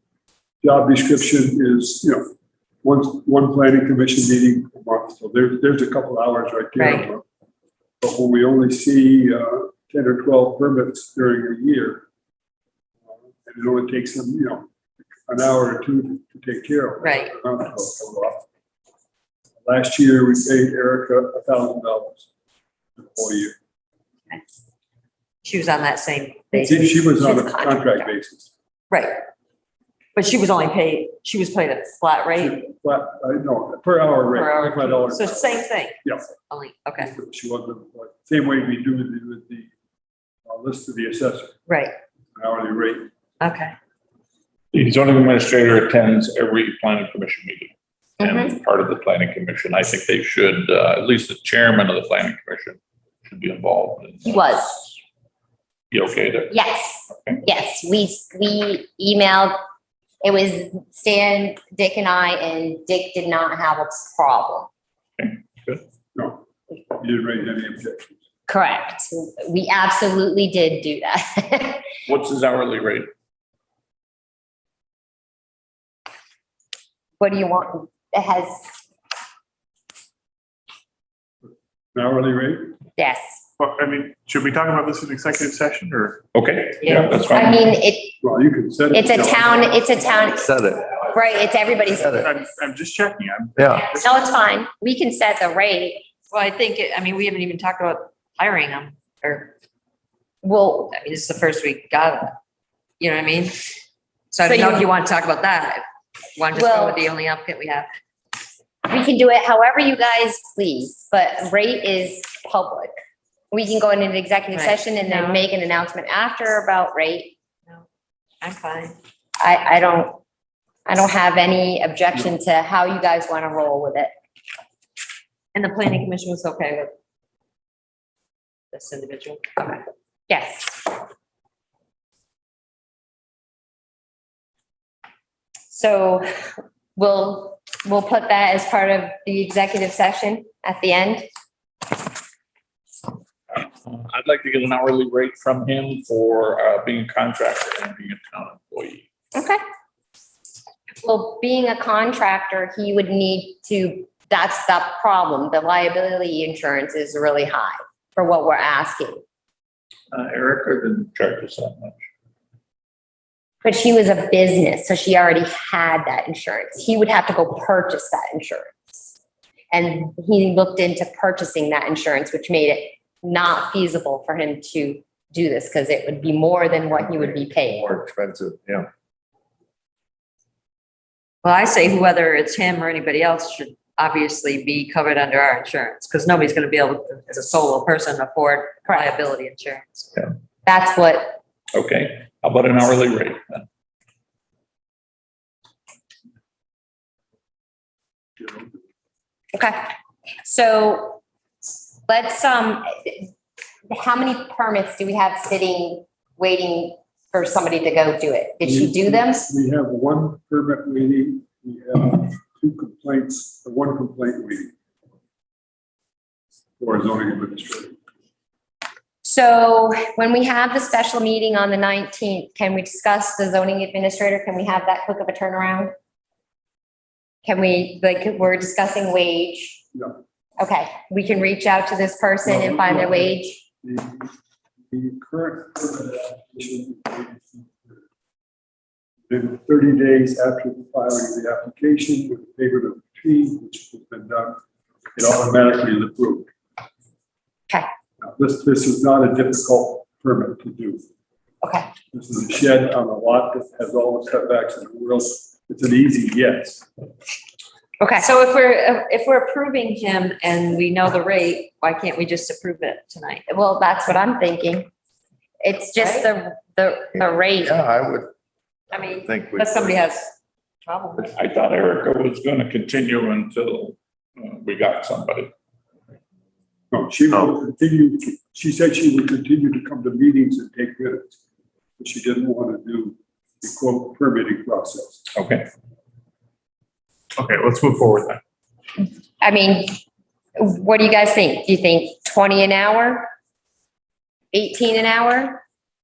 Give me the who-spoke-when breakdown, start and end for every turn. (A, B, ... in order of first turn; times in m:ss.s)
0:00.6-0:02.3 A
0:02.8-0:07.2 A
0:06.8-0:07.1 B
0:08.0-0:12.0 A
0:13.4-0:14.7 A
0:15.3-0:18.5 A
0:17.0-0:17.3 B
0:19.6-0:22.3 A
0:23.0-0:23.6 A
0:25.4-0:27.0 B
0:26.5-0:28.5 A
0:27.0-0:28.1 C
0:28.9-0:29.2 B
0:30.1-0:32.6 B
0:32.4-0:36.3 A
0:34.3-0:37.1 B
0:37.0-0:39.7 A
0:40.5-0:41.6 A
0:41.7-0:42.0 B
0:42.4-0:43.1 A
0:43.4-0:43.7 B
0:44.7-0:54.8 D
0:48.2-0:48.6 C
0:54.3-0:54.8 C
0:55.9-0:56.5 D
0:56.5-0:59.6 C
0:57.1-0:57.4 D
1:00.2-1:04.7 C
1:05.2-1:05.8 D
1:06.1-1:08.2 A
1:08.5-1:11.9 C
1:12.1-1:13.1 D
1:17.2-1:18.7 C
1:22.0-1:22.7 A
1:23.0-1:23.4 C
1:23.6-1:26.2 E
1:26.3-1:27.6 D
1:26.8-1:27.1 B
1:27.1-1:28.2 C
1:28.2-1:29.8 A
1:28.9-1:32.5 C
1:30.4-1:30.9 F
1:31.9-1:34.2 E
1:32.0-1:32.2 F
1:33.6-1:33.9 F
1:33.9-1:36.1 C
1:36.3-1:39.5 B
1:40.4-1:41.0 C
1:40.9-1:42.4 B
1:43.0-1:43.6 B
1:44.3-1:45.8 B
1:44.4-1:45.0 C
1:46.4-1:47.9 B
1:46.5-1:47.0 C
1:48.9-1:52.9 C
1:53.5-1:57.3 C
1:54.5-1:55.4 B
1:58.4-1:59.0 B
1:59.4-2:00.2 C
2:00.9-2:04.1 C
2:05.5-2:06.9 B
2:08.7-2:09.8 B
2:10.3-2:11.0 C
2:15.7-2:16.3 C
2:17.0-2:21.2 C
2:23.5-2:29.1 D
2:29.3-2:29.6 C
2:31.0-2:39.2 C
2:40.1-2:42.0 D
2:43.6-2:49.1 C
2:49.7-2:57.8 C
2:57.0-2:58.9 F
3:01.4-3:10.2 B
3:08.9-3:09.1 C
3:10.6-3:11.4 C
3:11.7-3:13.7 D
3:18.4-3:18.7 A
3:19.5-3:19.9 C
3:20.4-3:21.2 C
3:22.1-3:23.3 C
3:23.9-3:29.5 C
3:28.6-3:34.7 A
3:36.8-3:38.0 A
3:39.2-3:45.9 C
3:47.4-3:49.8 C
3:49.9-3:50.2 A
3:50.6-3:53.6 C
3:52.4-3:54.3 A
3:54.9-3:58.0 A
3:59.3-4:04.6 A
4:05.2-4:06.5 A
4:08.2-4:11.0 A
4:11.6-4:11.9 C
4:12.1-4:16.9 A
4:18.0-4:18.3 C
4:18.2-4:23.4 B
4:23.5-4:24.9 C
4:25.6-4:27.8 C
4:26.0-4:26.3 B
4:27.2-4:28.3 F
4:28.9-4:31.3 B
4:29.2-4:30.0 F
4:31.2-4:35.5 D
4:36.9-4:41.4 A
4:42.0-4:45.2 A
4:45.3-4:45.7 D
4:47.4-4:48.4 E
4:49.4-4:50.0 C
4:50.6-4:53.3 C
4:54.5-4:55.6 C